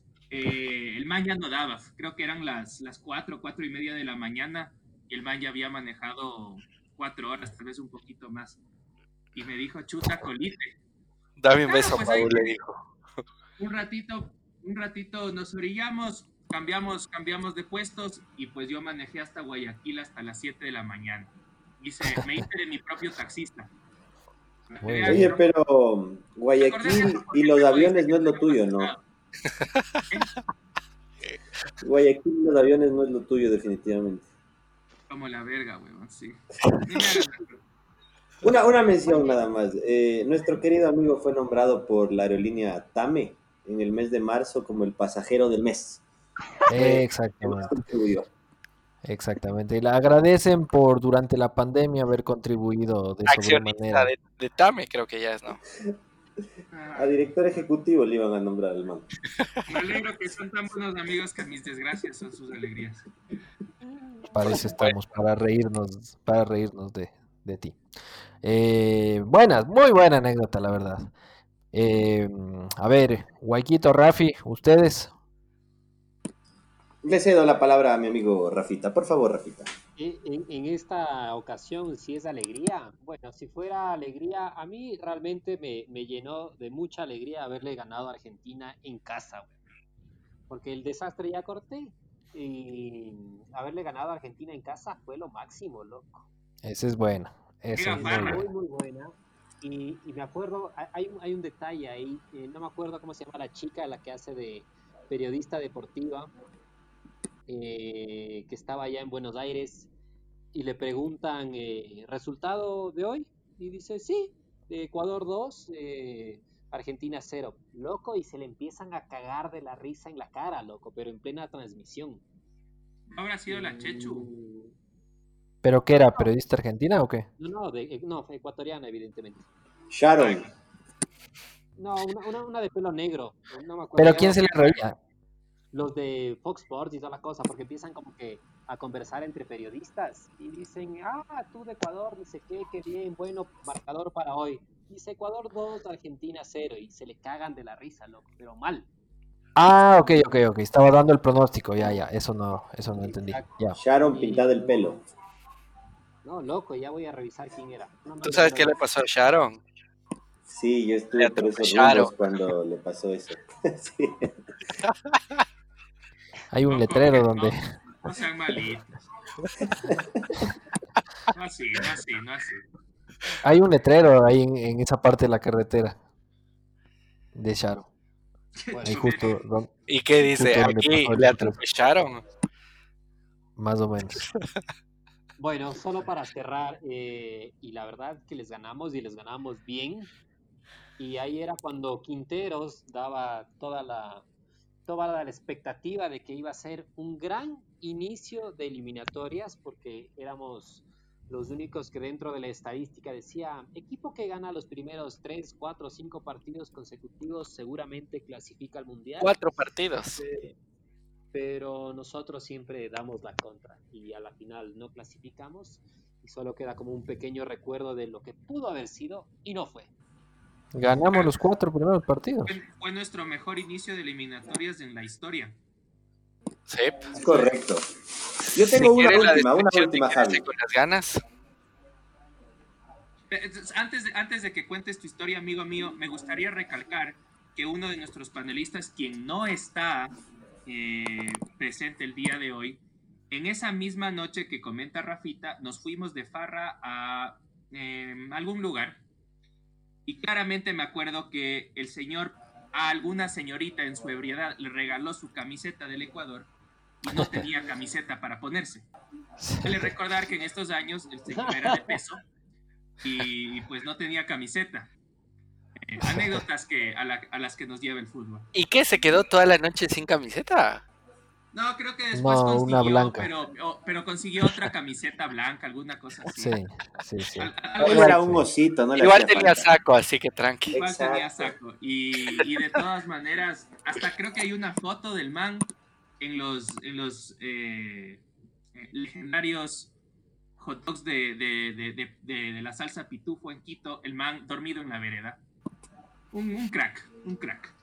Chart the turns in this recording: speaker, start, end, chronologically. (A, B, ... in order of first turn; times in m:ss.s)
0:00.3-0:08.6 A
0:09.4-0:10.8 A
0:11.4-0:12.8 B
0:11.6-0:12.6 A
0:13.6-0:23.7 A
0:24.7-0:25.5 A
0:24.8-0:25.3 C
0:25.1-0:28.9 D
0:26.6-0:29.0 A
0:29.6-0:30.0 B
0:31.8-0:34.3 D
0:35.1-0:37.6 A
0:38.4-0:46.0 D
0:38.5-0:39.3 A
0:46.7-0:48.3 D
0:46.7-0:47.9 C
0:49.0-0:54.1 C
0:53.3-0:55.6 B
0:56.7-0:57.6 A
0:57.0-0:59.1 D
0:59.7-1:03.0 A
1:04.3-1:07.8 C
1:08.4-1:11.1 C
1:11.7-1:15.1 C
1:17.0-1:19.7 D
1:20.0-1:29.5 E
1:30.5-1:36.2 E
1:36.6-1:38.5 C
1:37.7-1:38.5 A
1:38.0-1:46.3 E
1:47.5-1:49.9 E
1:50.5-2:02.2 E
2:03.1-2:04.3 A
2:03.5-2:04.7 E
2:05.6-2:07.3 C
2:05.9-2:06.2 E
2:07.4-2:09.5 E
2:09.9-2:10.5 D
2:10.2-2:10.5 A
2:11.8-2:14.8 E
2:14.0-2:15.0 C
2:14.4-2:14.7 A
2:15.7-2:28.9 E
2:29.6-2:33.8 C
2:33.0-2:33.5 E
2:33.8-2:35.0 D
2:34.0-2:34.9 E
2:36.2-2:38.8 E
2:38.2-2:39.6 B
2:40.5-2:44.4 D
2:41.2-2:42.1 B
2:44.9-2:45.4 B
2:46.5-2:47.6 C
2:46.7-2:48.9 A
2:49.8-2:50.4 D
2:51.4-2:52.6 A
2:53.4-2:56.0 C
2:57.4-2:57.9 C
2:58.7-2:59.0 E
2:58.8-2:59.7 C
2:58.8-2:59.4 A
2:59.9-3:02.2 B
3:00.2-3:01.6 C
3:03.6-3:04.2 C
3:04.2-3:04.4 B
3:05.4-3:10.1 E
3:11.0-3:14.2 E
3:14.9-3:29.4 E
3:29.2-3:30.2 B
3:30.2-3:30.5 E
3:31.3-3:39.9 E
3:40.7-3:42.6 C
3:42.5-3:45.6 A
3:46.7-3:47.1 B
3:47.2-3:47.6 E
3:47.2-3:47.9 D
3:48.5-3:50.5 D
3:48.6-3:51.2 B
3:53.3-4:00.1 A
4:00.7-4:09.0 A
4:10.1-4:16.5 A
4:17.0-4:18.9 A
4:17.1-4:17.4 C
4:19.4-4:19.9 C
4:19.6-4:22.2 A
4:21.3-4:22.0 E
4:23.0-4:24.9 A
4:25.8-4:28.5 A
4:26.0-4:26.4 C
4:28.5-4:30.8 B
4:31.5-4:36.6 A
4:32.1-4:33.3 C
4:36.4-4:38.4 C
4:37.4-4:38.2 A
4:37.8-4:39.7 D
4:39.0-4:40.8 B
4:40.7-4:41.5 D
4:40.7-4:48.2 A
4:48.7-4:49.9 A
4:50.6-4:55.4 A
4:56.3-4:57.7 A